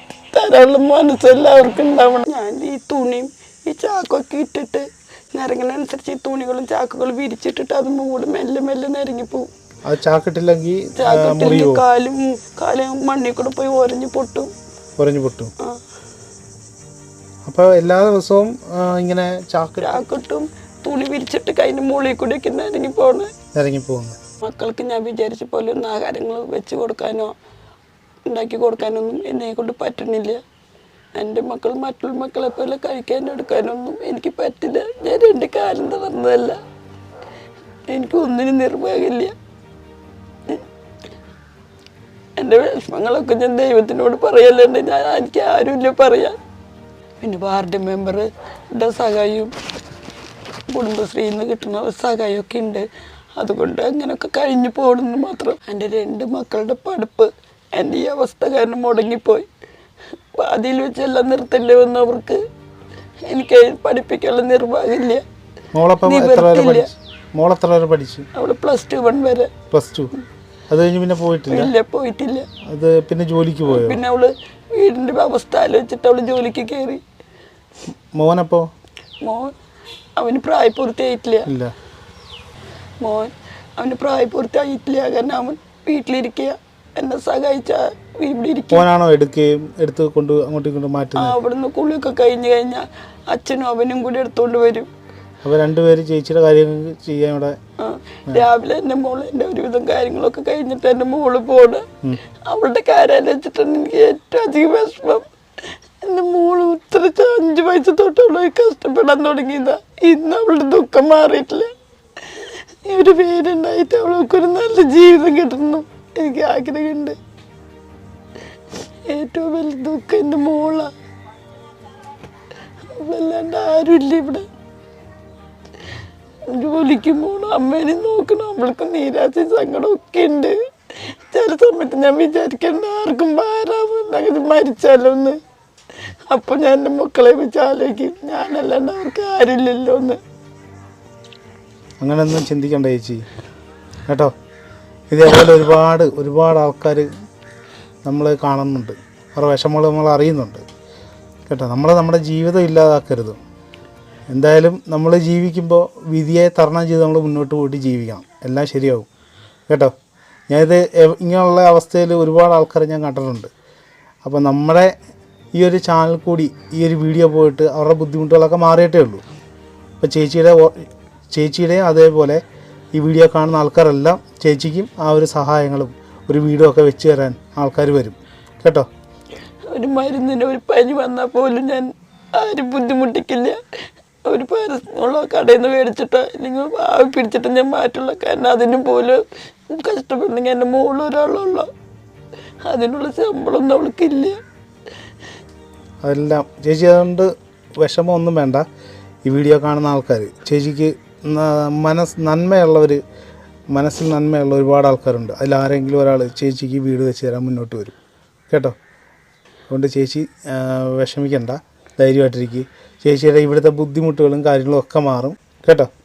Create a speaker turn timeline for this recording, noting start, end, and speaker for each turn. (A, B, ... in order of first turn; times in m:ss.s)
0:00.3-0:09.5 A
0:09.8-0:11.8 B
0:11.0-0:14.5 A
0:15.0-0:15.5 B
0:17.4-0:20.0 B
0:19.8-0:23.3 A
0:23.5-0:24.2 B
0:24.4-0:27.3 A
0:28.2-0:30.4 A
0:31.2-0:36.6 A
0:37.9-0:39.3 A
0:42.4-0:46.4 A
0:47.2-0:49.5 A
0:50.7-0:52.8 A
0:53.4-0:59.5 A
1:00.3-1:02.4 A
1:03.3-1:05.2 A
1:05.7-1:08.2 B
1:06.0-1:06.9 A
1:08.3-1:09.5 A
1:09.7-1:10.1 B
1:10.7-1:11.7 B
1:11.5-1:12.5 A
1:12.7-1:14.0 B
1:13.7-1:17.0 A
1:18.2-1:18.7 B
1:19.2-1:19.5 A
1:20.2-1:21.5 A
1:21.5-1:21.7 B
1:23.0-1:28.8 A
1:28.7-1:31.4 B
1:31.2-1:34.9 A
1:35.4-1:37.6 B
1:37.8-1:41.9 A
1:42.4-1:45.2 A
1:46.0-1:51.7 A
1:52.3-1:57.2 A
1:59.1-2:00.9 A
2:02.9-2:04.5 A
2:06.5-2:10.5 A
2:11.1-2:15.4 A
2:16.3-2:20.2 A
2:22.0-2:23.2 B
2:24.1-2:24.3 B
2:25.1-2:27.1 B
2:28.0-2:30.6 B
2:31.5-2:33.4 B
2:34.3-2:39.1 B
2:40.5-2:43.5 B
2:44.2-2:44.9 B
2:45.6-2:49.2 B
2:50.0-2:52.4 B
2:52.9-2:58.9 B
2:59.7-3:03.6 A
3:04.2-3:11.7 A
3:12.6-3:14.4 A
3:16.0-3:17.3 B
3:17.8-3:18.6 B
3:19.2-3:23.0 B
3:23.7-3:27.9 B
3:28.5-3:28.7 B
3:29.7-3:35.9 B